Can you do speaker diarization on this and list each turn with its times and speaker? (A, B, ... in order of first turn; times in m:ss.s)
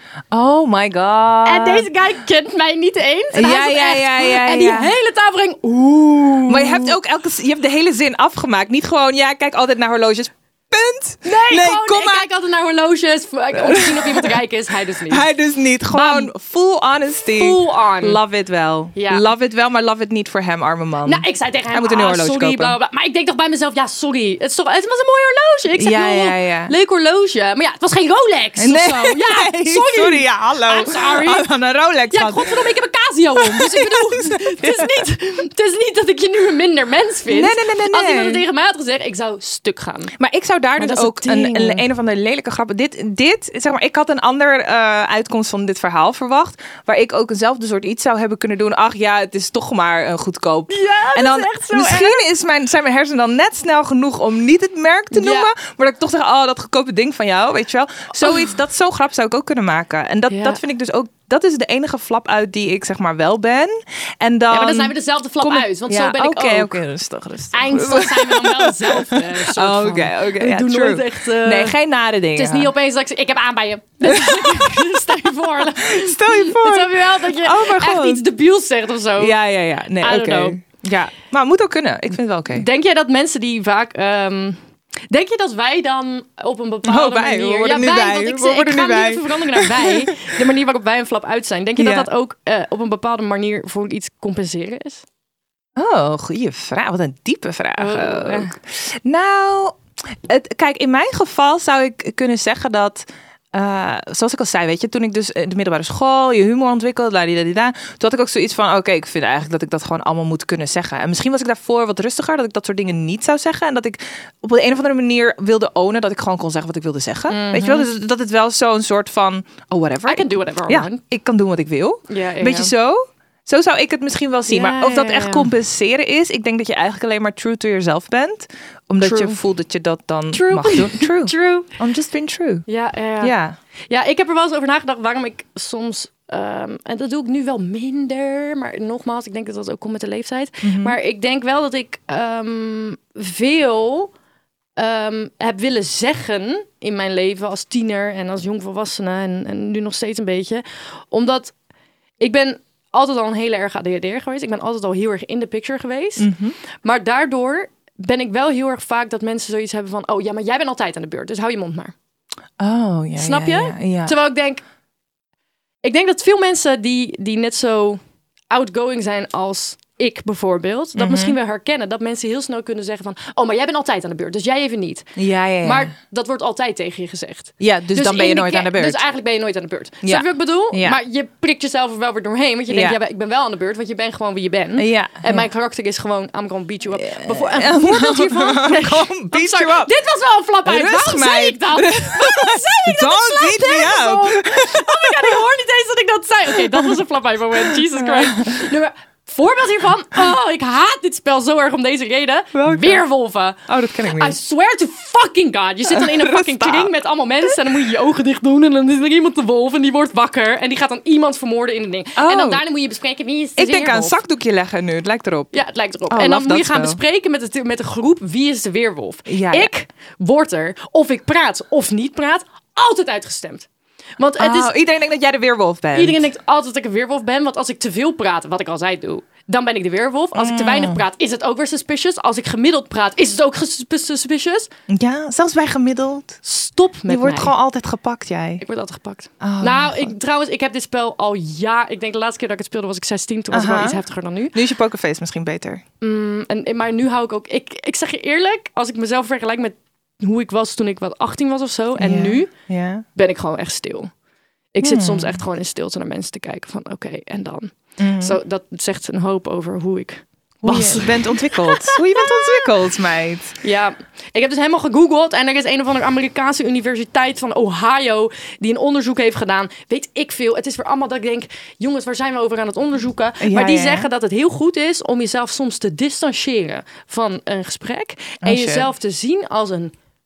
0:00.3-0:01.9 A
0:01.4-0:06.9 B
0:03.3-0:04.9 A
0:06.5-0:12.3 A
0:11.2-0:15.3 B
0:13.5-0:14.4 A
0:15.1-0:22.8 A
0:15.9-0:16.3 B
0:17.4-0:18.2 B
0:19.0-0:19.3 B
0:21.0-0:31.5 B
0:25.8-0:26.7 A
0:28.6-0:32.6 A
0:32.1-0:40.2 B
0:33.4-0:35.1 A
0:37.3-0:38.4 A
0:40.2-1:12.7 A
0:40.8-0:41.8 B
0:50.7-0:52.2 B
0:55.1-0:55.5 B
1:00.3-1:00.6 B
1:04.5-1:06.8 B
1:07.5-1:11.8 B
1:12.4-1:19.4 B
1:14.0-1:15.0 A
1:15.8-1:18.2 A
1:19.2-1:22.7 A
1:20.0-1:20.6 B
1:22.5-1:24.6 B
1:25.1-1:35.0 B
1:26.8-1:30.1 A
1:31.8-1:32.1 A
1:35.8-2:12.6 A
1:37.8-1:38.5 B
1:57.3-1:57.9 B
2:00.1-2:01.0 B
2:02.1-2:02.7 B
2:04.5-2:05.5 B
2:09.0-2:09.4 B
2:10.3-2:11.7 B
2:12.7-2:13.4 B
2:13.2-2:13.6 A
2:13.9-2:24.1 B
2:20.6-2:21.0 A
2:24.8-2:31.5 B
2:32.2-2:36.3 B
2:36.2-2:36.6 A
2:36.8-2:41.9 B
2:42.6-2:44.2 A
2:43.2-2:44.6 B
2:45.8-2:48.0 B
2:48.5-3:34.2 B
2:51.0-2:51.4 A
2:55.2-2:55.9 A
2:57.6-2:59.0 A
3:00.0-3:01.0 A
3:02.7-3:03.0 A
3:04.8-3:05.5 A
3:07.0-3:09.9 A
3:10.6-3:15.4 A
3:16.5-3:17.0 A
3:17.6-3:18.7 A
3:22.6-3:23.0 A
3:23.7-3:24.4 A
3:25.9-3:26.9 A
3:32.2-3:32.6 A
3:33.6-3:37.0 A
3:35.5-3:43.7 B
3:39.3-3:39.7 A
3:44.2-3:44.7 B
3:44.4-3:46.3 A
3:45.9-3:54.7 B
3:50.4-3:51.0 A
3:54.9-3:56.4 A
3:56.4-3:57.5 B
3:57.1-3:58.6 A
3:58.6-4:04.6 B
3:59.4-4:00.1 A
4:03.5-4:04.0 A
4:04.5-4:05.8 A
4:06.0-4:12.5 B
4:12.0-4:13.1 A
4:13.2-4:14.1 B
4:14.7-4:22.6 B
4:14.8-4:15.4 A
4:18.0-4:18.4 A
4:20.6-4:23.6 A
4:23.6-4:39.9 B
4:33.4-4:34.1 A
4:38.4-4:38.9 A